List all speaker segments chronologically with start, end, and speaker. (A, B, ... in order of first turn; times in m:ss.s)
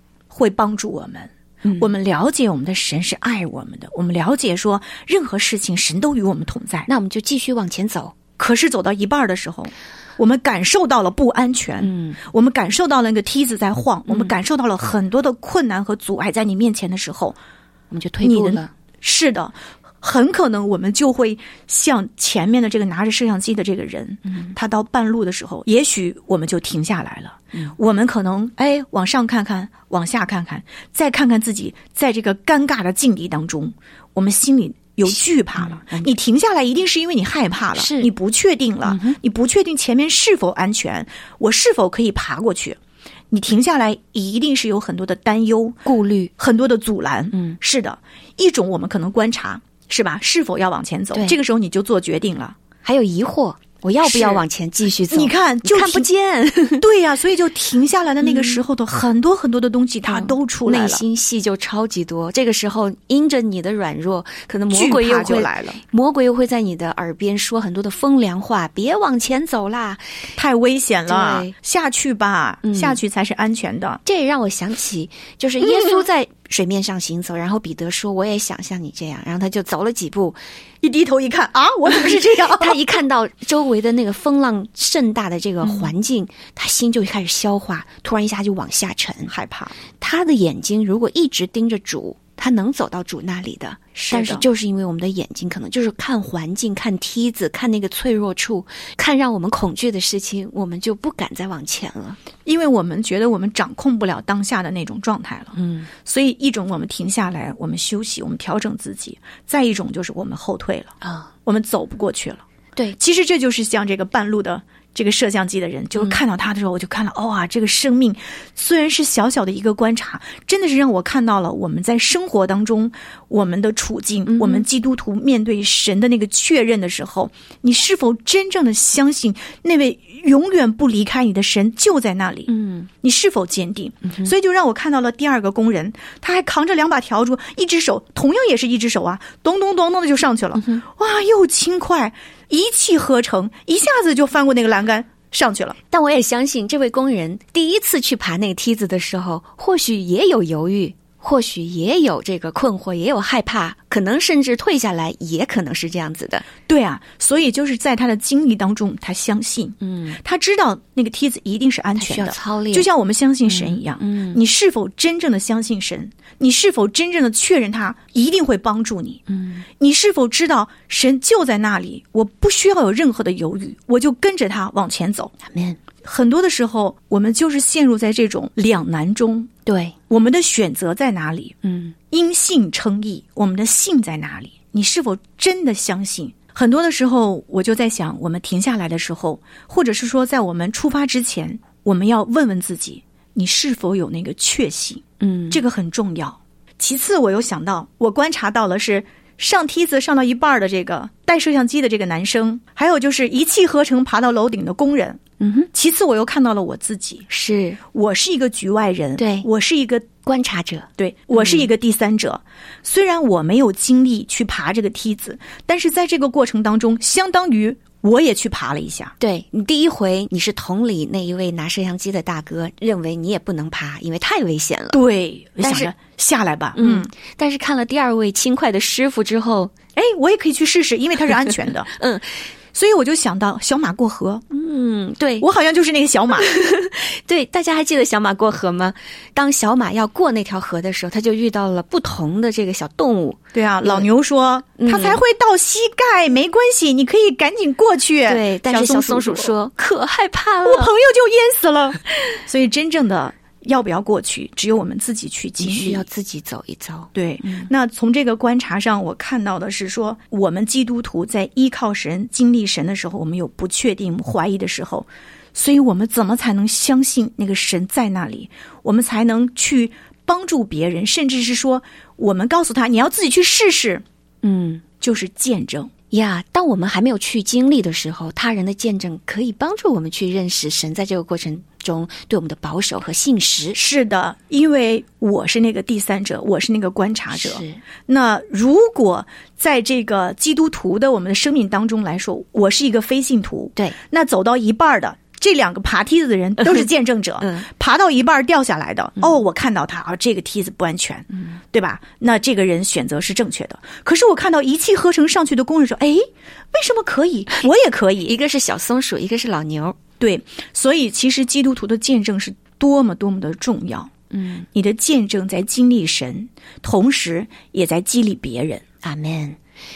0:00.3-0:06.9 A
0:06.9-0:08.1 B
0:08.4-0:17.4 A
0:11.8-0:12.2 B
0:14.1-0:14.3 B
0:17.9-0:18.7 B
0:18.2-0:42.8 A
0:24.3-0:24.5 B
0:35.1-0:36.1 B
0:37.7-0:38.1 B
0:38.8-0:39.2 B
0:43.3-0:45.8 A
0:45.8-0:46.3 B
0:46.4-0:52.6 A
0:47.3-0:47.6 B
0:52.8-0:56.8 B
0:54.0-0:54.4 A
0:55.1-0:56.1 A
0:56.8-1:01.0 A
0:58.2-0:58.6 B
1:00.0-1:10.0 B
1:04.7-1:05.8 A
1:10.4-1:14.0 A
1:11.1-1:11.5 B
1:12.6-1:13.0 B
1:14.0-1:20.4 B
1:15.6-1:15.9 A
1:20.8-1:22.8 A
1:22.5-1:29.3 B
1:25.6-1:25.9 A
1:29.3-1:29.8 A
1:30.0-1:42.2 B
1:33.9-1:34.4 A
1:42.4-1:45.5 A
1:45.5-1:45.9 B
1:46.0-1:50.9 A
1:51.0-1:51.3 B
1:51.4-1:52.4 A
1:53.0-2:25.8 A
2:04.3-2:04.6 B
2:12.5-2:12.9 B
2:25.9-2:36.4 B
2:36.7-2:49.2 A
2:39.8-2:40.2 B
2:42.0-2:42.9 B
2:43.4-2:44.4 B
2:49.3-2:49.6 B
2:49.8-2:55.3 A
2:55.4-2:55.8 B
2:56.0-2:59.5 A
2:59.6-2:59.9 B
3:00.1-3:01.6 A
3:01.6-3:01.9 B
3:02.1-3:25.2 A
3:15.2-3:15.6 B
3:25.4-3:25.7 B
3:25.7-3:27.3 A
3:27.3-3:27.8 B
3:27.9-3:30.1 A
3:29.2-3:29.5 B
3:30.2-3:31.6 B
3:31.0-3:39.1 A
3:39.2-3:45.0 B
3:44.9-3:47.1 A
3:45.6-3:45.9 B
3:46.7-3:49.7 B
3:50.0-3:51.9 A
3:52.0-3:52.2 B
3:52.7-3:54.4 A
3:54.5-3:55.5 B
3:55.4-3:56.5 A
3:56.4-4:04.1 B
4:03.5-4:09.5 A
4:04.8-4:05.2 B
4:08.2-4:10.9 B
4:10.6-4:16.0 A
4:15.6-4:17.7 B
4:17.1-4:34.0 A
4:34.4-4:34.8 B
4:35.0-4:35.9 A
4:36.1-4:43.8 B
4:43.7-5:08.4 A
4:47.3-4:47.8 B
5:08.2-5:10.0 B
5:10.2-5:14.1 A
5:14.3-5:14.6 B
5:14.7-5:18.8 A
5:19.0-5:19.6 B